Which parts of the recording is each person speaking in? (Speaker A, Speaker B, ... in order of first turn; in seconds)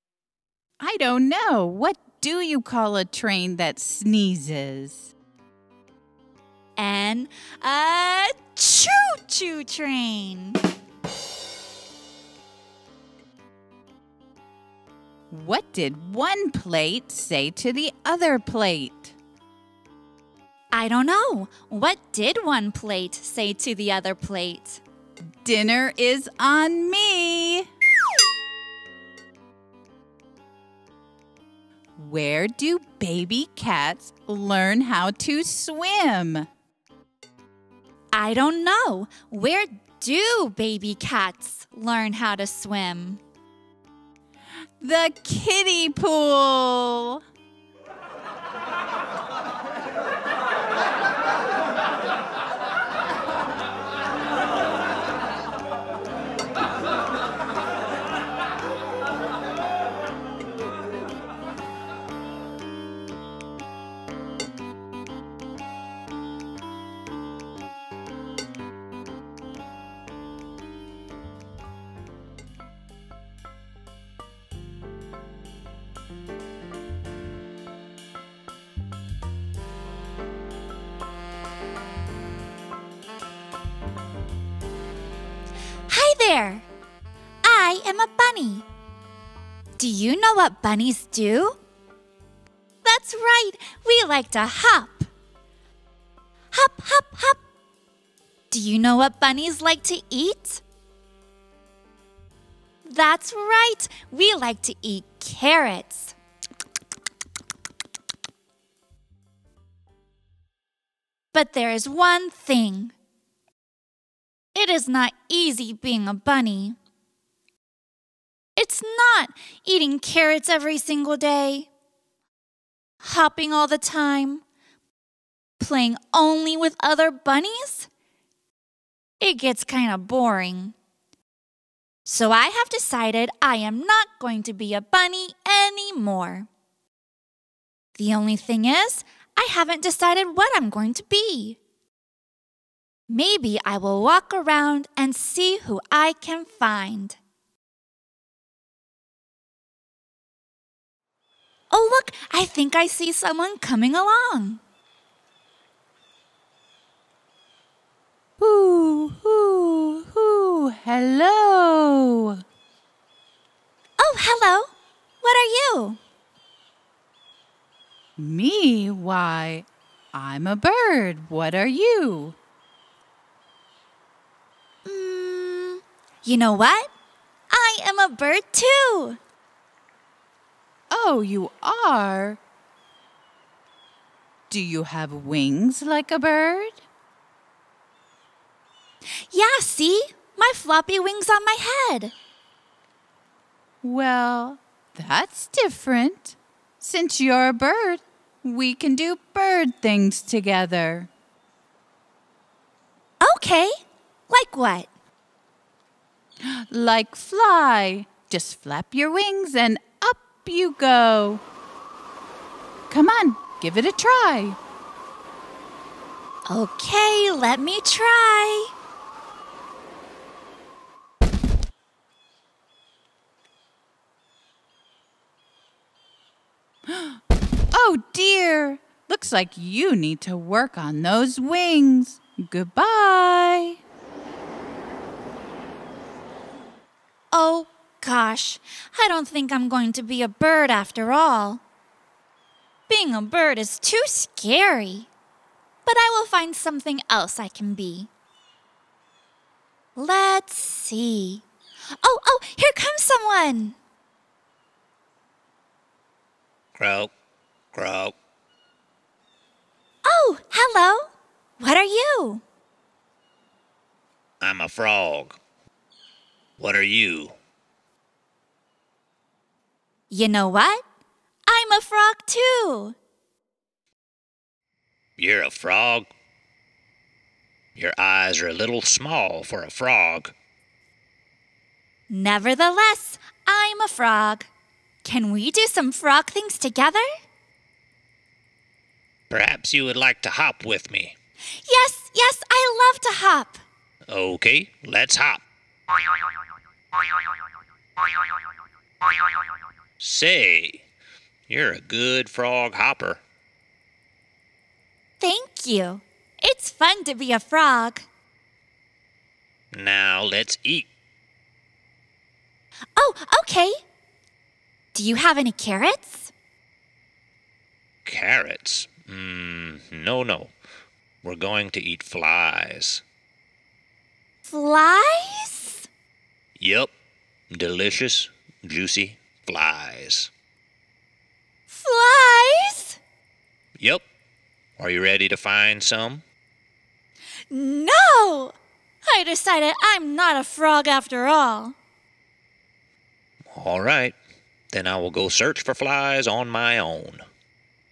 Speaker A: 0.8-5.1, 15.3-19.1, 25.4-27.7, 32.0-36.5, 44.8-47.2, 158.4-162.4, 168.2-172.4, 180.9-182.4, 184.5-186.8, 193.8-201.1, 206.4-211.4, 212.9-214.6, 226.8-227.2, 227.7-233.8
Speaker B: 6.8-10.6, 20.7-24.8, 38.1-43.2, 85.9-86.7, 87.4-88.6, 89.8-91.6, 92.8-95.1, 96.5-97.4, 98.5-100.6, 102.8-106.1, 111.3-112.9, 114.5-116.8, 118.6-121.7, 123.0-124.4, 125.6-127.9, 129.2-130.7, 132.1-136.5, 137.9-141.6, 143.1-147.2, 151.7-154.6, 164.0-164.7, 165.2-166.0, 174.8-176.9, 177.5-179.2, 189.3-192.1, 203.2-203.8, 204.3-204.9, 216.5-218.7, 237.3-241.6, 242.9-245.1, 245.8-248.1, 249.9-251.4, 252.0-253.8, 260.0-261.1, 261.6-262.4, 270.1-270.8, 271.5-272.9, 282.1-284.5, 285.0-287.1, 291.6-293.6, 305.2-308.1, 312.9-313.8, 314.9-316.3, 324.4-325.9, 331.7-333.0, 337.5-338.5, 339.1-341.8
Speaker C: 256.7-257.1, 257.7-258.1, 264.4-265.4, 266.6-267.4, 275.2-276.1, 277.8-280.3, 289.3-291.1, 294.1-295.4, 300.0-300.8, 301.5-303.2, 309.7-310.9, 318.0-320.5, 321.2-323.0, 326.6-326.9, 327.5-330.3, 333.8-334.0, 334.8-336.2, 343.5-344.1, 344.7-347.2